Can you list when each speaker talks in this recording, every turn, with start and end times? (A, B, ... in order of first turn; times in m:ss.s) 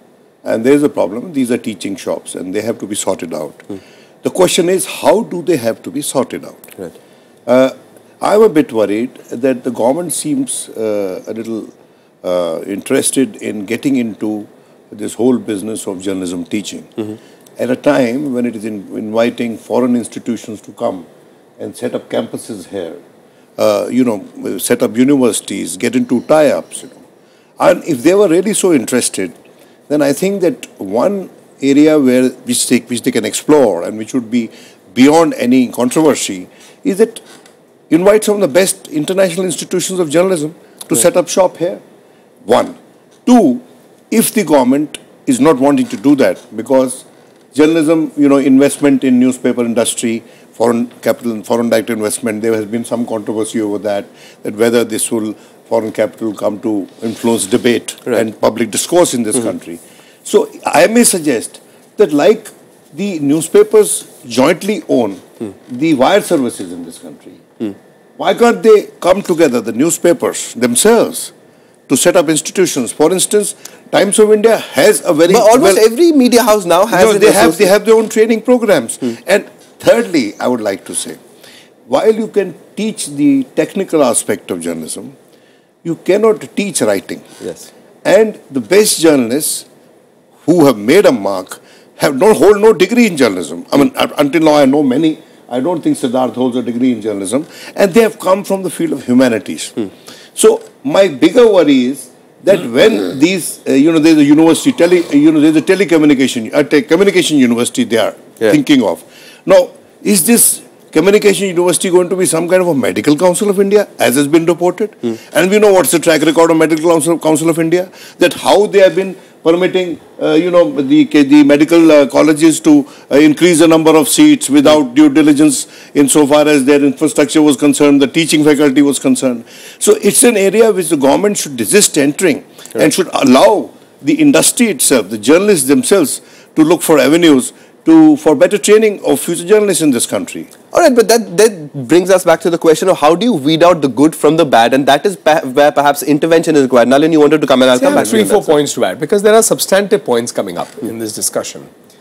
0:00.4-0:03.6 A
0:04.2-0:06.6 A
0:07.4-0:11.7 A
0:12.2-0:17.0 A
0:17.6-0:21.1 A
0:21.6-0:23.0 A
0:23.6-0:27.0 A
0:27.6-0:29.3 A
0:29.9-0:37.2 A
0:37.9-0:41.8 A
0:42.4-1:07.4 A
1:08.2-1:11.3 A
1:11.9-1:15.8 A
1:15.3-1:17.7 B
1:16.9-1:21.2 A
1:21.9-1:25.1 A
1:25.8-1:27.3 A
1:27.4-1:27.7 B
1:28.0-1:29.6 A
1:30.4-2:20.5 A
2:20.7-2:28.5 B
2:27.7-2:31.7 C